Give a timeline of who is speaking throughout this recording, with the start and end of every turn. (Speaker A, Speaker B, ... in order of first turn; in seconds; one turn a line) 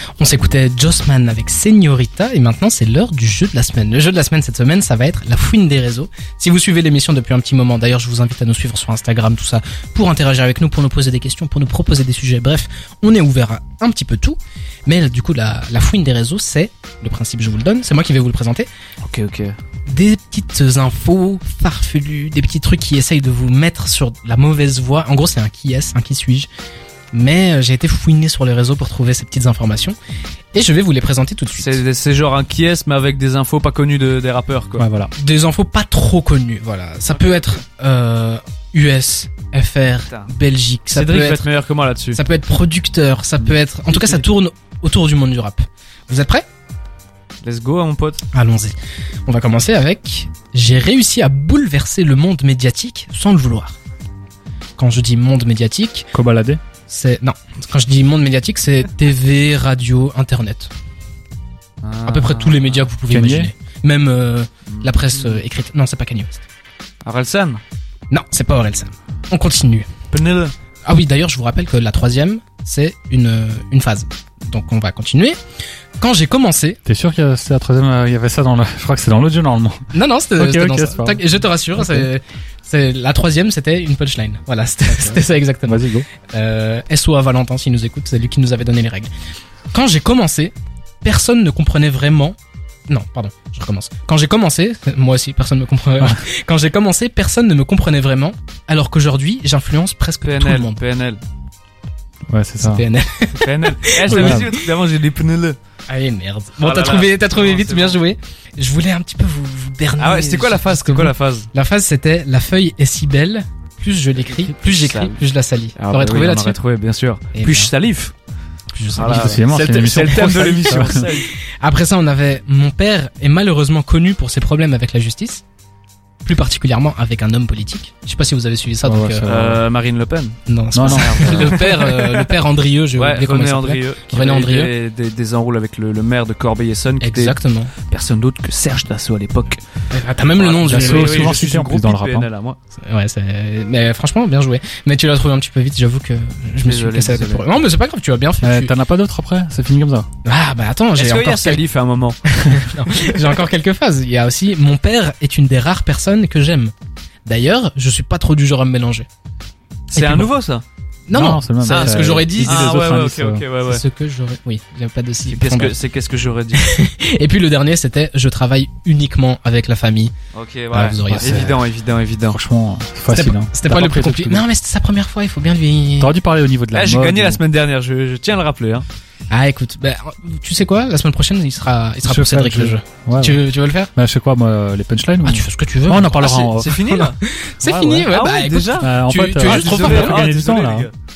Speaker A: 0.2-18.7
Speaker B: 19.0-19.5
Speaker A: 19.9-26.5
Speaker A: 27.1-30.0
Speaker A: 30.5-31.8
Speaker B: 31.6-34.9
Speaker C: 34.8-35.1
Speaker A: 35.1-41.5
Speaker B: 40.9-42.2
Speaker A: 42.1-46.5
Speaker B: 43.9-44.2
Speaker B: 47.4-48.2
Speaker A: 48.3-48.7
Speaker A: 49.2-53.8
Speaker A: 54.8-56.1
Speaker C: 56.1-56.6
Speaker A: 56.9-60.7
Speaker B: 61.8-62.9
Speaker A: 62.0-66.4
Speaker C: 63.1-63.5
Speaker B: 64.7-65.4
Speaker B: 67.0-67.6
Speaker A: 68.1-69.9
Speaker B: 70.1-70.5
Speaker A: 70.8-75.4
Speaker A: 76.0-76.8
Speaker C: 76.8-81.2
Speaker A: 79.9-89.1
Speaker C: 81.8-82.1
Speaker C: 84.9-86.1
Speaker A: 89.7-92.3
Speaker A: 92.9-100.8
Speaker B: 100.2-101.2
Speaker C: 102.3-102.8
Speaker A: 102.6-104.7
Speaker B: 103.3-105.6
Speaker C: 104.1-104.5
Speaker A: 105.9-116.6
Speaker B: 106.6-108.0
Speaker B: 110.0-111.5
Speaker B: 114.2-115.2
Speaker B: 115.8-118.1
Speaker A: 117.3-117.7
Speaker A: 118.7-119.4
Speaker B: 118.9-121.3
Speaker C: 118.9-121.1
Speaker A: 120.6-125.4
Speaker A: 126.2-129.3
Speaker C: 128.8-129.6
Speaker B: 129.2-132.3
Speaker A: 130.5-134.7
Speaker C: 130.7-131.5
Speaker B: 132.9-139.6
Speaker A: 137.0-137.7
Speaker A: 139.9-141.6
Speaker B: 140.2-142.6
Speaker C: 140.6-142.3
Speaker A: 142.8-148.7
Speaker B: 146.6-147.5
Speaker C: 148.4-150.1
Speaker A: 150.2-151.6
Speaker B: 150.9-153.0
Speaker A: 152.2-156.7
Speaker A: 157.2-159.1
Speaker B: 159.9-160.6
Speaker A: 159.9-160.3
Speaker A: 161.1-162.9
Speaker C: 161.1-163.4
Speaker B: 161.6-163.8
Speaker A: 163.7-165.8
Speaker B: 165.2-166.7
Speaker A: 166.5-170.1
Speaker B: 170.3-172.4
Speaker A: 170.7-171.6
Speaker C: 171.1-171.4
Speaker C: 172.3-174.4
Speaker A: 173.1-176.1
Speaker C: 176.0-177.4
Speaker B: 176.7-178.8
Speaker A: 179.3-183.9
Speaker C: 182.0-183.4
Speaker C: 183.9-186.8
Speaker A: 185.2-190.3
Speaker B: 186.5-187.2
Speaker C: 187.6-188.1
Speaker B: 188.1-190.9
Speaker C: 188.8-190.9